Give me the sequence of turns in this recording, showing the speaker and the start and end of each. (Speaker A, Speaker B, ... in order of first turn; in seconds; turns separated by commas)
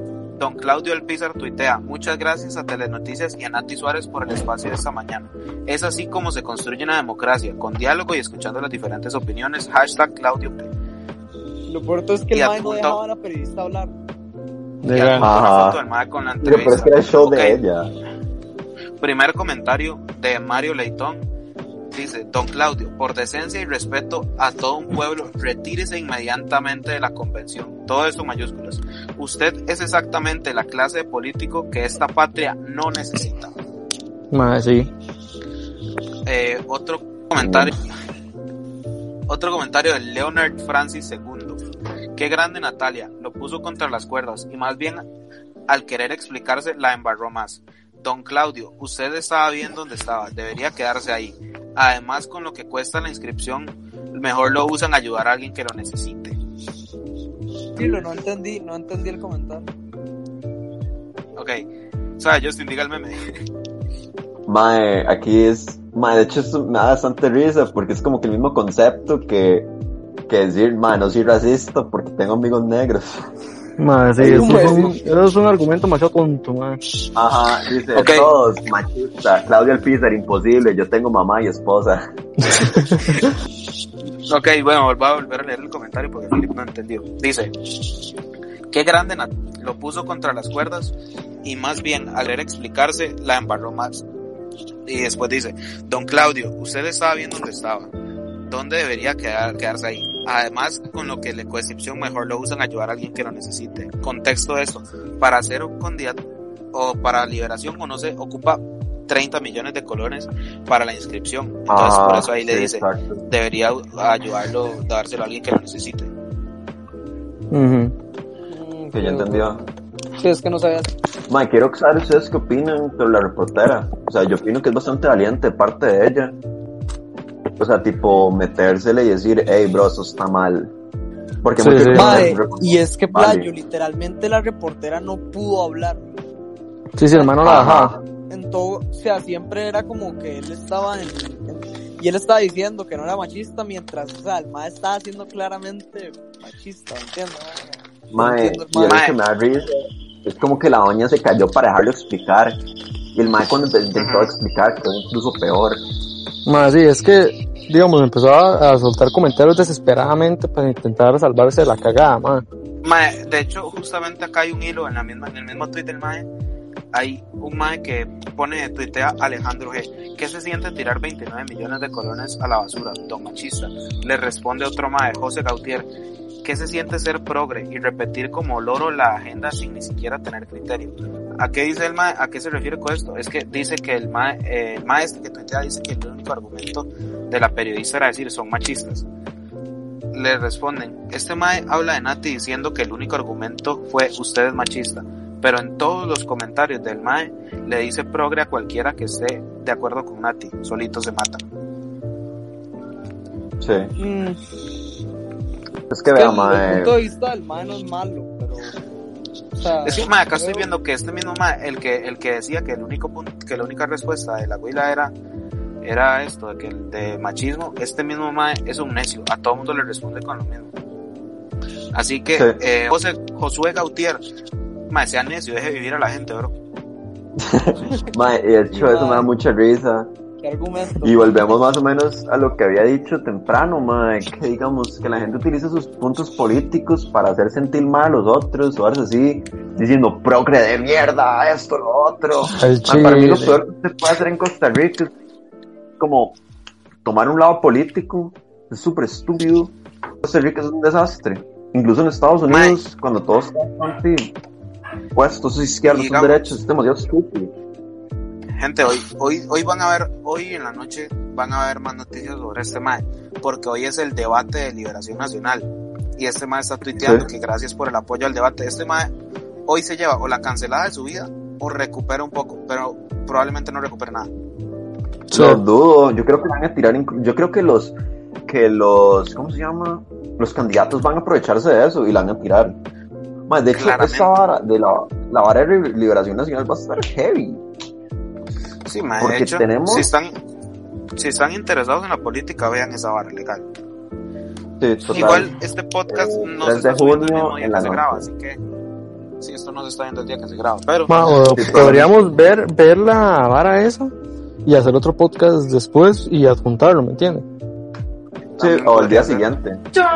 Speaker A: 0.4-10.7, Speaker B: 11.7-13.9, Speaker A: 12.3-13.0, Speaker C: 14.8-15.3, Speaker A: 14.9-17.6, Speaker D: 15.2-15.8, Speaker D: 16.4-17.9, Speaker A: 19.0-21.2, Speaker A: 21.9-33.5, Speaker C: 34.3-34.9, Speaker A: 36.2-37.8, Speaker D: 37.4-37.7, Speaker A: 39.3-41.6, Speaker A: 42.1-45.0, Speaker A: 45.7-56.4, Speaker B: 57.8-59.7, Speaker A: 61.4-61.6, Speaker A: 62.2-63.3, Speaker D: 64.5-69.7, Speaker D: 70.3-73.3, Speaker C: 73.8-76.8, Speaker D: 74.2-74.9, Speaker B: 74.3-74.9, Speaker D: 77.1-82.0, Speaker A: 78.0-78.3, Speaker C: 82.5-83.2, Speaker A: 84.3-87.5, Speaker A: 88.7-94.0, Speaker A: 94.8-97.9, Speaker A: 98.5-106.2, Speaker A: 106.7-116.1, Speaker D: 111.7-113.2, Speaker C: 117.5-117.9, Speaker B: 118.5-119.6, Speaker D: 118.9-119.6, Speaker B: 120.2-120.9, Speaker D: 121.3-126.3, Speaker D: 127.6-130.7, Speaker D: 131.4-133.5, Speaker C: 131.6-132.3, Speaker B: 131.9-136.1, Speaker C: 137.0-137.9, Speaker D: 137.4-138.0, Speaker B: 138.3-149.1, Speaker D: 148.1-152.6, Speaker A: 148.9-149.2, Speaker D: 153.1-155.8, Speaker A: 153.9-154.3, Speaker C: 156.4-162.4, Speaker A: 162.8-166.3, Speaker A: 166.9-175.9, Speaker A: 176.4-189.1, Speaker A: 190.1-201.4, Speaker D: 203.6-203.9, Speaker B: 204.0-204.4, Speaker D: 205.9-206.9, Speaker B: 206.1-208.8, Speaker B: 209.6-210.7, Speaker A: 209.8-215.1, Speaker A: 215.8-220.7, Speaker A: 221.9-224.2, Speaker A: 224.9-226.5, Speaker D: 227.4-230.1, Speaker B: 228.7-229.3, Speaker B: 230.4-231.3, Speaker D: 231.0-245.1, Speaker C: 242.5-243.6, Speaker D: 246.0-246.3, Speaker D: 247.0-254.3, Speaker A: 252.5-252.8, Speaker D: 255.1-257.5, Speaker A: 255.9-256.6, Speaker A: 258.6-269.1, Speaker D: 267.0-267.3, Speaker A: 269.7-274.3, Speaker D: 275.3-282.8, Speaker C: 275.3-275.6, Speaker D: 283.5-287.6, Speaker A: 283.7-284.3, Speaker A: 288.9-290.3, Speaker D: 289.2-290.1, Speaker A: 291.1-293.6, Speaker D: 294.8-295.5, Speaker A: 295.1-298.6, Speaker D: 296.1-298.3, Speaker A: 299.4-301.9, Speaker C: 301.1-304.1, Speaker D: 301.5-302.1, Speaker C: 304.6-307.4, Speaker A: 308.6-309.5, Speaker D: 308.6-309.8